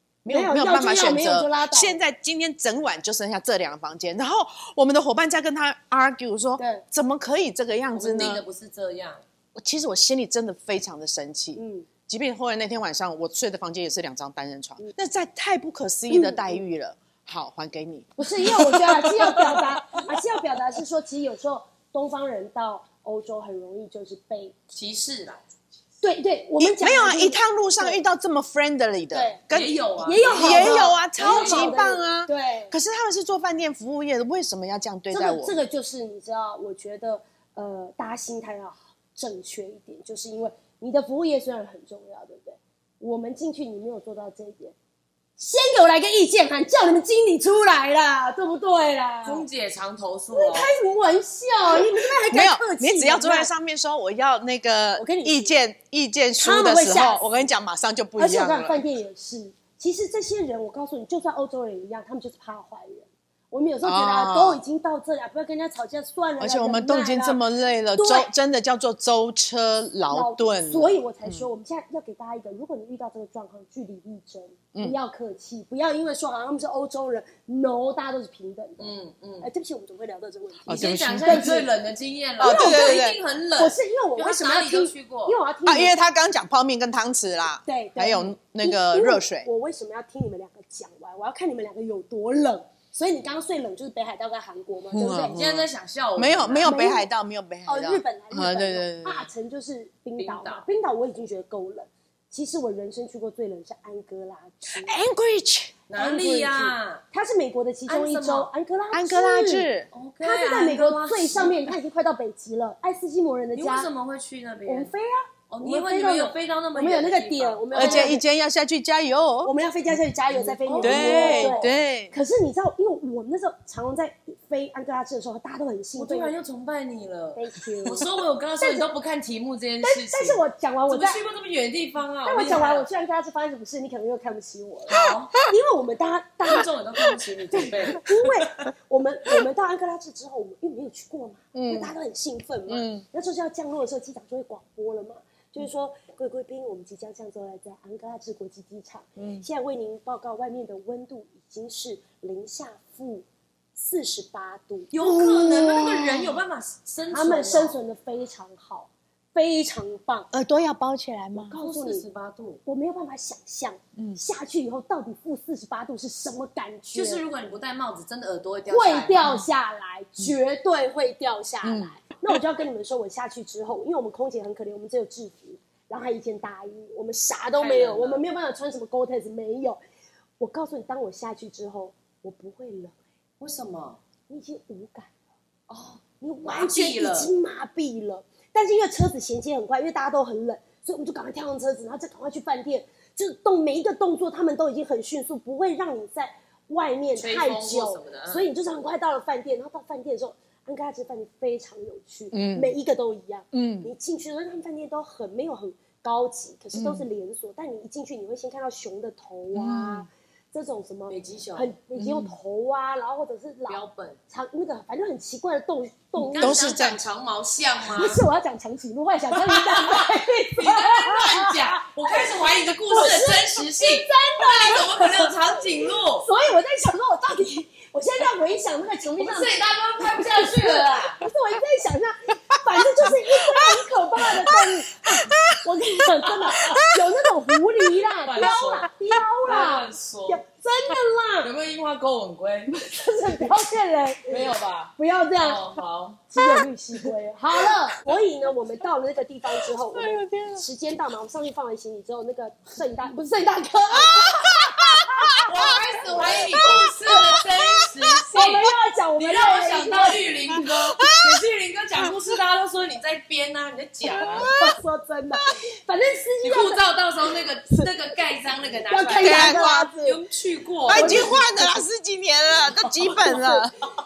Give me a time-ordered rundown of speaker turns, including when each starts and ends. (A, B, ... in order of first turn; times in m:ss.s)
0:00.2-0:08.4 A
0:00.3-0:02.0 B
0:06.6-0:06.8 B
0:07.9-0:09.2 C
0:09.6-0:20.1 A
0:11.6-0:11.9 B
0:16.1-0:16.6 B
0:18.2-0:24.6 B
0:24.7-0:25.4 C
0:26.0-0:28.0 B
0:26.6-0:35.6 A
0:29.1-0:29.4 B
0:29.5-0:31.7 C
0:30.0-0:32.7 B
0:35.1-0:44.8 B
0:45.4-0:49.4 B
0:49.2-0:50.7 C
0:50.3-0:53.5 B
0:52.3-0:58.8 A
0:55.0-0:55.5 B
0:56.4-0:57.2 B
0:58.2-1:07.4 B
1:03.8-1:04.6 A
1:06.4-1:11.5 A
1:08.0-1:08.3 B
1:10.1-1:21.7 B
1:18.8-1:19.5 C
1:20.7-1:21.5 A
1:20.7-1:25.4 C
1:22.4-1:23.2 A
1:22.4-1:25.9 B
1:25.7-1:29.5 A
1:27.6-1:35.4 B
1:34.9-1:39.3 A
1:35.3-1:36.8 C
1:36.6-1:37.1 B
1:37.7-1:45.0 B
1:40.2-1:40.7 C
1:44.7-1:45.8 A
1:45.9-1:47.0 C
1:46.0-1:49.7 B
1:47.9-1:48.5 C
1:48.9-1:49.9 A
1:49.9-1:51.6 C
1:50.2-1:53.9 B
1:53.6-1:54.9 C
1:54.7-1:58.2 B
1:55.5-1:58.2 C
1:57.7-1:59.5 A
1:59.4-2:06.3 B
2:00.4-2:01.8 C
2:00.8-2:02.1 A
2:06.0-2:12.9 C
2:07.4-2:08.0 B
2:08.6-2:08.9 B
2:09.8-2:11.2 B
2:12.2-2:16.7 B
2:14.9-2:15.4 C
2:14.9-2:15.4 A
2:16.5-2:18.4 C
2:17.5-2:35.0 B
2:21.5-2:21.9 A
2:22.7-2:23.0 A
2:29.2-2:29.4 A
2:34.9-2:37.8 C
2:35.0-2:36.4 A
2:37.1-2:40.3 B
2:40.3-2:41.6 A
2:41.5-2:42.1 B
2:41.6-2:42.6 C
2:42.6-2:47.2 B
2:46.9-2:49.2 C
2:48.7-2:59.8 B
2:51.6-2:52.4 A
2:57.6-2:58.2 C
3:00.4-3:03.0 B
3:03.4-3:04.0 C
3:04.3-3:05.1 B
3:05.7-3:07.3 C
3:06.2-3:36.6 B
3:17.2-3:18.5 C
3:22.3-3:22.7 A
3:23.5-3:23.9 A
3:26.7-3:27.1 A
3:29.5-3:30.1 A
3:31.1-3:31.8 C
3:32.0-3:32.4 A
3:33.7-3:34.2 C
3:36.2-3:38.2 C
3:36.4-3:37.0 A
3:37.9-3:45.6 B
3:39.4-3:46.3 C
3:46.2-4:01.5 B
3:49.2-3:51.2 C
3:52.5-3:57.8 A
3:58.3-3:58.9 C
3:59.4-4:00.4 C
4:01.4-4:03.3 C
4:02.9-4:15.4 B
4:04.3-4:06.2 C
4:09.5-4:10.7 A
4:14.0-4:18.2 A
4:15.4-4:18.7 C
4:16.0-4:17.2 B
4:18.3-4:21.0 B
4:19.2-4:24.5 C
4:20.5-4:21.4 A
4:24.1-4:24.8 A
4:24.2-4:26.8 B
4:26.4-4:31.4 C
4:28.9-4:30.2 B
4:29.2-4:29.9 A
4:30.9-4:33.8 A
4:30.9-4:31.8 B
4:32.8-4:33.7 B